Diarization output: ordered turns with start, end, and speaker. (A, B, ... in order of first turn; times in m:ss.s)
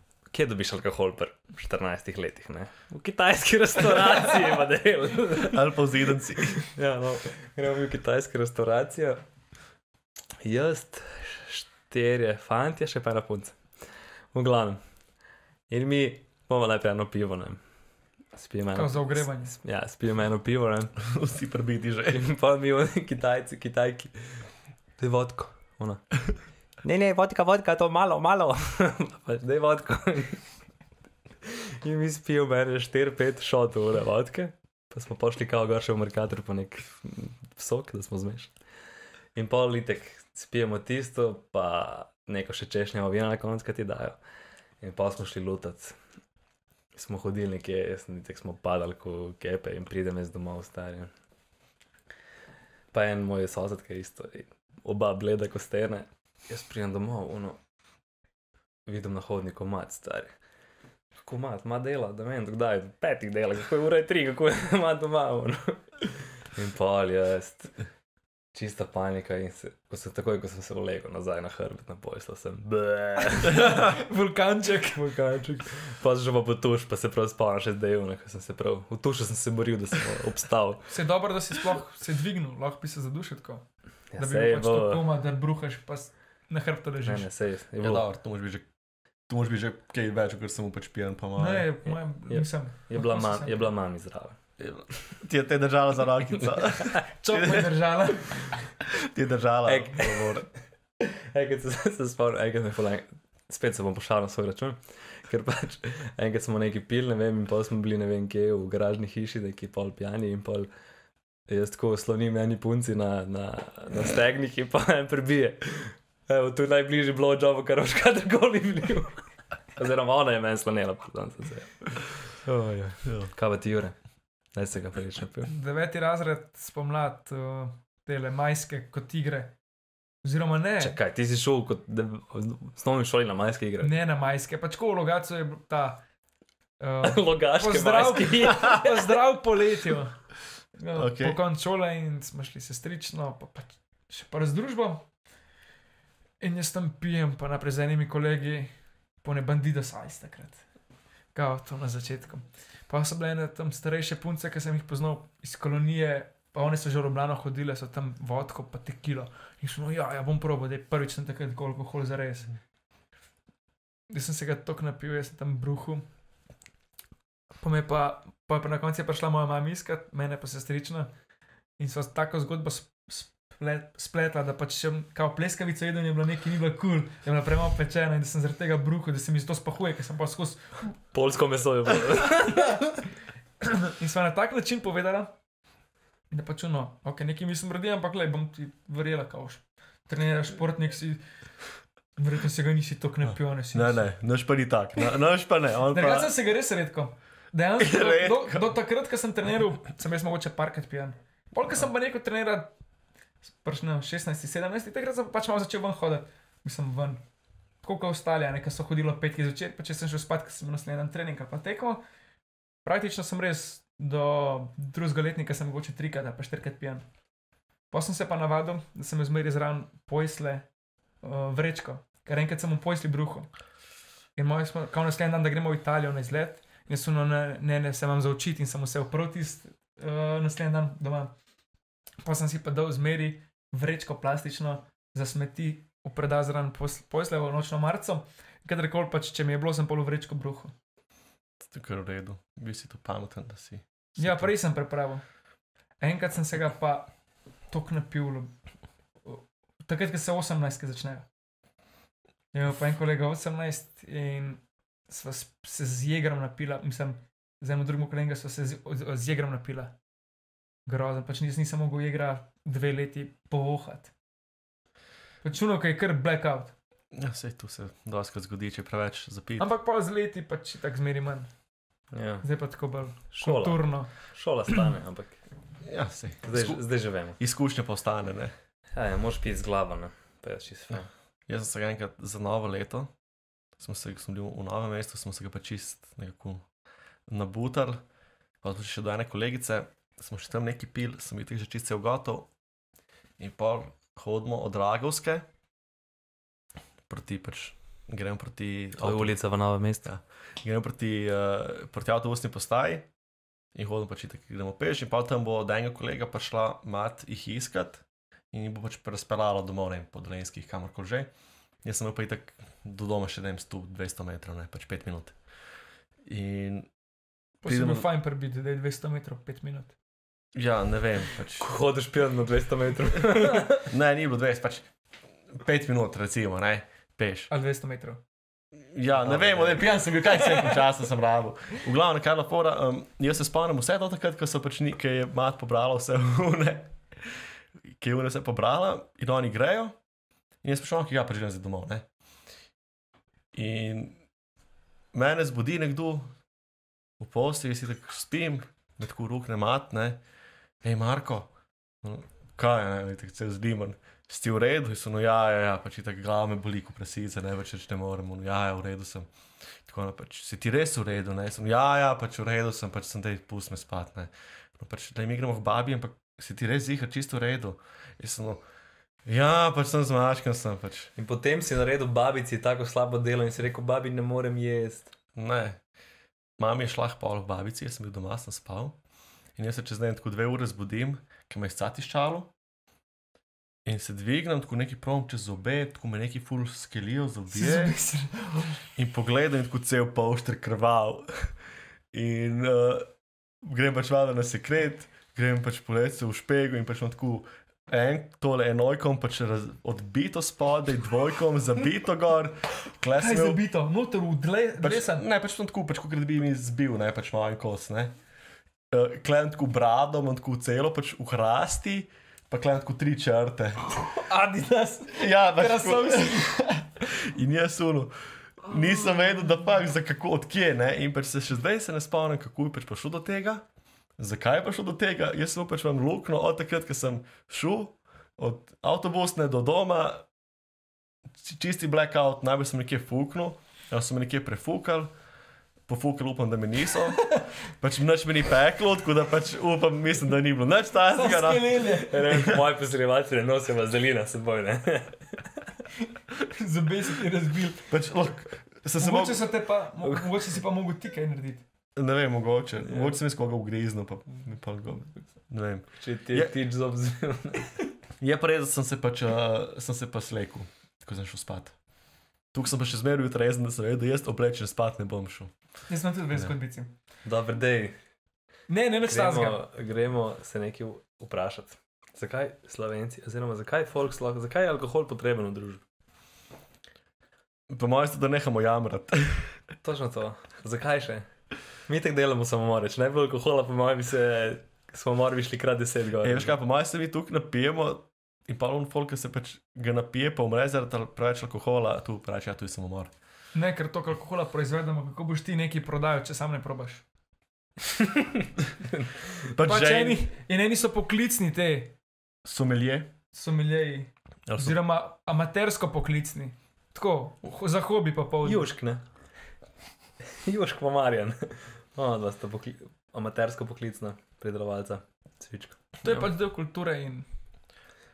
0:00.3-0:05.6 A
0:05.4-0:06.6 B
0:06.6-0:09.2 A
0:10.4-0:14.8 A
0:15.7-0:17.6 A
0:18.4-0:21.0 A
0:18.7-0:19.5 C
0:21.0-0:22.2 B
0:22.1-0:26.3 A
0:26.8-0:30.4 A
0:31.4-0:38.5 A
0:39.4-0:44.2 A
0:44.8-0:46.0 A
0:46.9-0:51.1 A
0:52.9-0:57.6 A
0:58.9-1:00.4 A
1:01.2-1:07.8 A
1:08.5-1:13.9 A
1:13.6-1:15.4 C
1:15.0-1:20.9 A
1:20.9-1:23.6 C
1:24.1-1:25.0 A
1:24.2-1:27.3 C
1:27.1-1:28.1 A
1:27.8-1:28.7 B
1:29.3-1:31.7 B
1:31.4-1:33.6 C
1:31.9-1:34.4 A
1:34.6-1:37.7 B
1:36.7-1:37.0 A
1:37.2-1:38.6 C
1:38.9-1:40.4 B
1:39.6-1:40.5 A
1:41.1-1:50.7 A
1:51.5-1:59.2 A
1:59.8-2:04.0 A
2:03.0-2:03.3 B
2:04.5-2:05.5 A
2:05.5-2:09.6 C
2:10.2-2:11.0 C
2:10.8-2:13.9 A
2:13.8-2:16.0 C
2:16.8-2:20.2 C
2:17.0-2:19.1 A
2:20.8-2:25.1 C
2:20.9-2:21.4 B
2:26.4-2:30.6 C
2:31.3-2:42.5 C
2:44.1-2:46.1 C
2:47.6-2:51.1 C
2:51.8-3:00.9 C
3:01.1-3:02.8 A
3:03.6-3:05.3 C
3:06.3-3:11.2 C
3:12.2-3:14.1 C
3:13.2-3:16.3 B
3:15.9-3:22.7 C
3:17.8-3:18.7 B
3:23.4-3:27.2 C
3:27.8-3:32.0 C
3:32.8-3:37.1 C
3:37.9-3:40.7 C
3:41.2-3:43.5 C
3:44.4-3:51.3 C
3:52.2-4:00.7 C
4:01.6-4:04.5 B
4:04.2-4:05.2 C
4:06.0-4:07.1 C
4:07.7-4:08.5 C
4:09.2-4:11.3 C
4:12.5-4:19.9 C
4:20.9-4:24.1 C
4:25.4-4:26.8 C
4:27.1-4:29.7 B
4:29.6-4:31.5 C
4:32.1-4:32.5 A
4:32.4-4:34.1 C
4:33.3-4:35.4 A
4:35.8-4:38.5 B
4:36.4-4:37.4 A
4:38.9-4:41.1 A
4:41.5-4:43.1 B
4:43.8-4:46.6 B
4:47.3-4:48.0 B
4:48.6-4:52.5 B
4:53.4-4:55.4 B
4:57.1-4:59.4 B
4:59.0-5:00.1 A
5:00.0-5:03.1 B
5:03.7-5:11.3 B
5:11.8-5:15.4 B
5:16.3-5:16.9 B
5:17.6-5:19.9 C
5:17.6-5:18.1 B
5:20.6-5:21.6 B
5:21.6-5:23.9 A
5:23.9-5:24.9 B
5:25.5-5:27.5 B
5:27.5-5:28.2 C
5:28.9-5:40.0 B
5:29.2-5:29.9 A
5:40.6-5:42.1 B
5:43.5-5:44.2 B
5:45.1-5:46.3 B
5:47.2-5:50.2 B
5:50.8-5:59.3 B
5:59.8-6:08.6 B
6:09.3-6:11.1 B
6:11.2-6:15.1 A
6:15.4-6:15.8 B
6:16.6-6:19.0 B
6:19.6-6:22.5 B
6:23.8-6:27.9 B
6:27.5-6:28.8 C
6:29.0-6:31.5 B
6:32.1-6:33.1 B
6:33.6-6:43.6 B
6:43.2-6:45.2 C
6:44.8-6:48.1 B
6:48.9-6:53.8 B
6:54.0-6:56.6 C
6:55.1-7:03.6 B
7:04.2-7:10.2 B
7:11.4-7:15.1 B
7:15.9-7:22.6 B
7:21.1-7:22.2 C
7:22.1-7:25.4 A
7:26.5-7:27.9 C
7:27.9-7:29.5 B
7:29.0-7:31.6 C
7:30.0-7:30.3 A
7:32.0-7:36.5 B
7:36.0-7:37.7 A
7:38.2-7:41.8 B
7:42.5-7:45.5 B
7:45.9-7:46.9 C
7:47.2-7:48.0 A
7:48.7-7:49.6 C
7:49.1-7:55.8 A
7:57.7-7:59.6 B
7:59.8-8:01.3 A
8:01.9-8:06.5 A
8:06.2-8:13.1 B
8:13.5-8:17.0 C
8:18.0-8:19.1 A
8:19.5-8:20.2 B
8:19.6-8:21.9 C
8:22.4-8:23.1 B
8:23.3-8:28.7 C
8:24.5-8:24.8 B
8:28.4-8:29.0 A
8:30.4-8:36.0 A
8:36.0-8:37.3 C